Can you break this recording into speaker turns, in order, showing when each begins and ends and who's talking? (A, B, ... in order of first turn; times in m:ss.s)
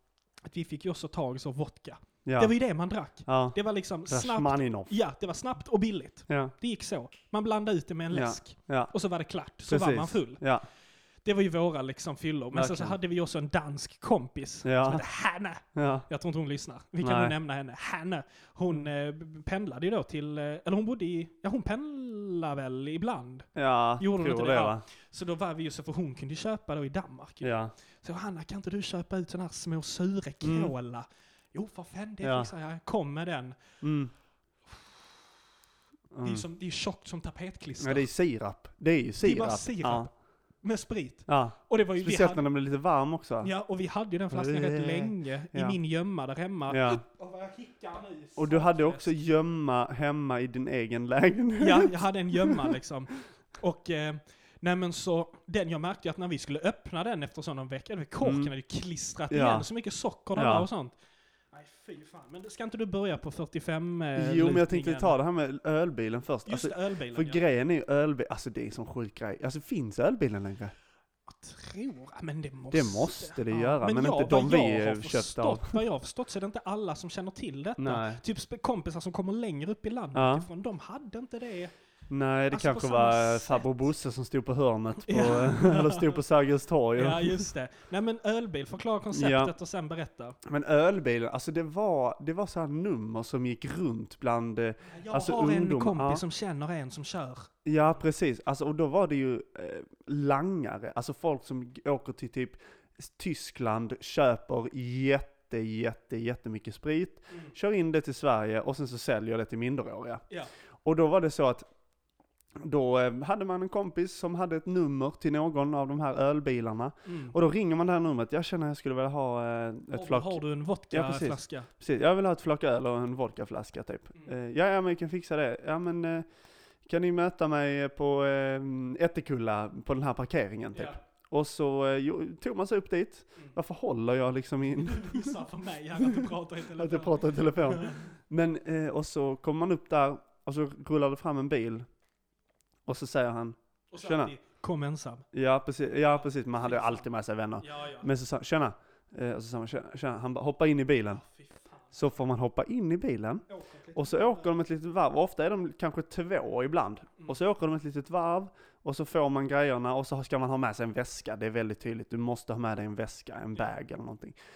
0:00.4-0:10.4 A
0:02.2-0:02.5 B
0:03.3-0:04.9 B
0:08.1-0:08.9 B
0:09.7-0:10.7 B
0:11.2-0:23.5 A
0:12.5-0:13.0 B
0:14.6-0:15.0 B
0:15.7-0:16.1 B
0:17.0-0:17.3 B
0:23.6-0:24.8 B
0:24.0-0:33.6 A
0:27.4-0:27.7 B
0:30.4-0:30.7 B
0:32.2-0:32.5 B
0:33.8-0:34.1 B
0:36.1-0:36.4 B
0:36.2-0:38.1 A
0:37.8-0:40.1 B
0:39.2-0:40.1 A
0:40.6-0:42.4 A
0:41.3-0:43.5 B
0:43.4-0:49.1 A
0:44.3-0:45.8 B
0:46.7-0:47.0 B
0:48.4-0:52.8 B
0:51.6-1:01.0 A
0:58.2-0:58.5 B
0:59.3-0:59.7 B
1:00.4-1:00.7 B
1:01.5-1:05.2 A
1:04.2-1:10.8 B
1:06.5-1:07.4 A
1:11.3-1:21.7 A
1:12.7-1:15.8 B
1:17.8-1:18.2 B
1:20.1-1:20.5 B
1:22.1-1:27.5 B
1:22.5-1:23.7 A
1:25.0-1:26.2 A
1:27.0-1:30.4 A
1:29.1-1:29.5 B
1:30.4-1:36.2 B
1:34.9-1:37.5 A
1:37.6-1:50.2 B
1:50.8-1:51.7 B
1:52.6-2:06.3 B
1:57.1-1:57.4 A
1:59.9-2:01.7 A
2:06.8-2:15.4 B
2:10.7-2:11.0 A
2:14.8-2:18.0 A
2:16.0-2:21.9 B
2:22.9-2:24.4 B
2:23.9-2:25.2 A
2:25.3-2:31.2 B
2:26.1-2:27.1 A
2:27.6-2:28.1 A
2:31.1-2:32.0 A
2:31.9-2:44.4 B
2:33.5-2:34.5 A